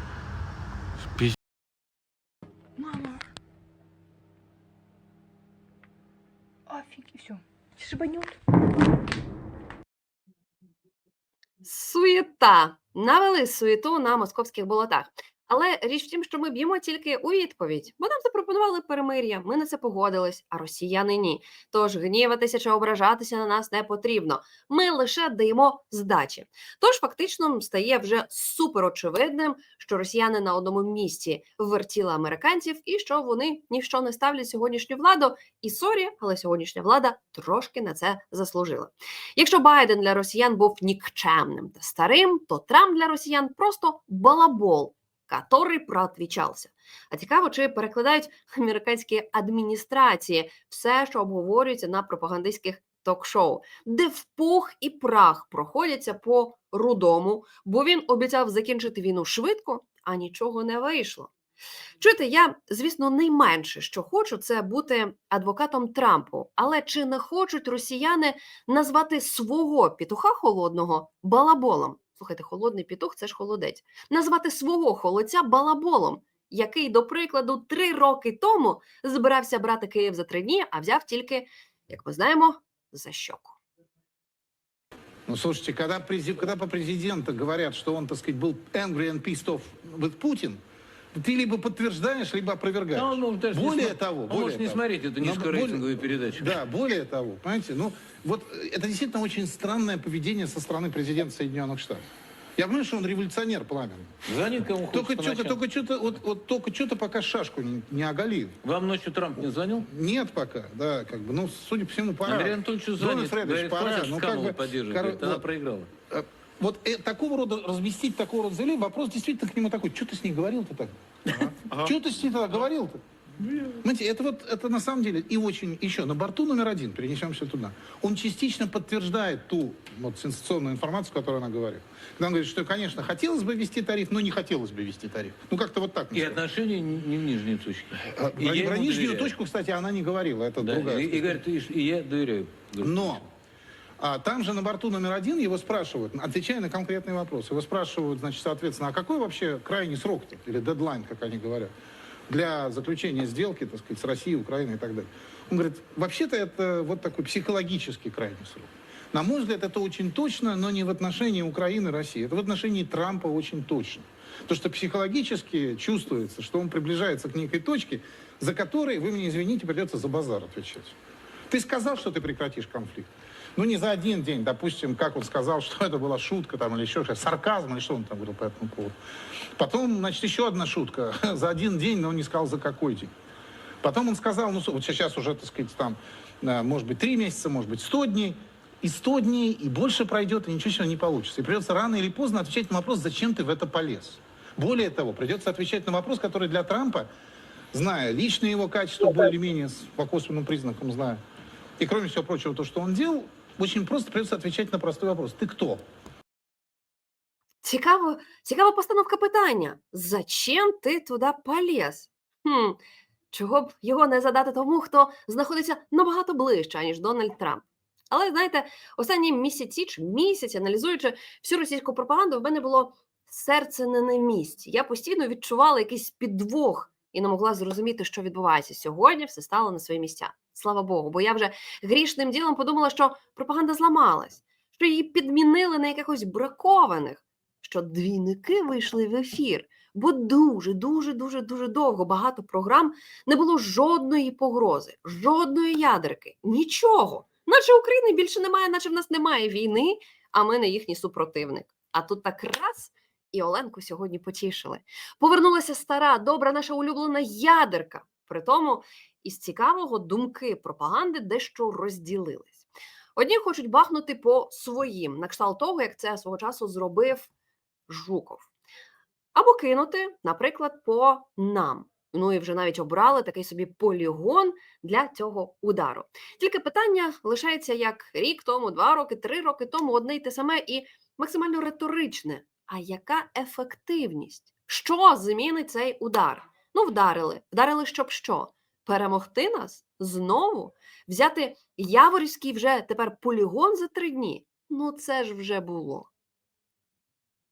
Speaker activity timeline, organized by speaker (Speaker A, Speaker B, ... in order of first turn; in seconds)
Speaker A: 2.8-3.2, 6.7-8.3
Speaker B: 11.6-61.3, 62.0-83.5, 207.6-212.8, 213.3-262.6, 263.1-267.3, 267.9-268.5, 269.3-296.1
Speaker C: 85.3-90.6, 91.1-102.0, 102.6-104.2, 104.9-108.6, 109.8-115.4, 116.1-121.0, 121.7-123.0, 123.8-136.4, 138.1-141.4, 142.8-143.2, 144.0-151.7, 152.3-170.9, 171.5-178.9, 179.6-183.1, 183.8-197.1, 197.7-201.2, 201.8-205.8
Speaker D: 92.9-96.6, 104.2-105.6, 108.6-109.9, 112.2-115.9, 136.1-139.3, 140.6-143.2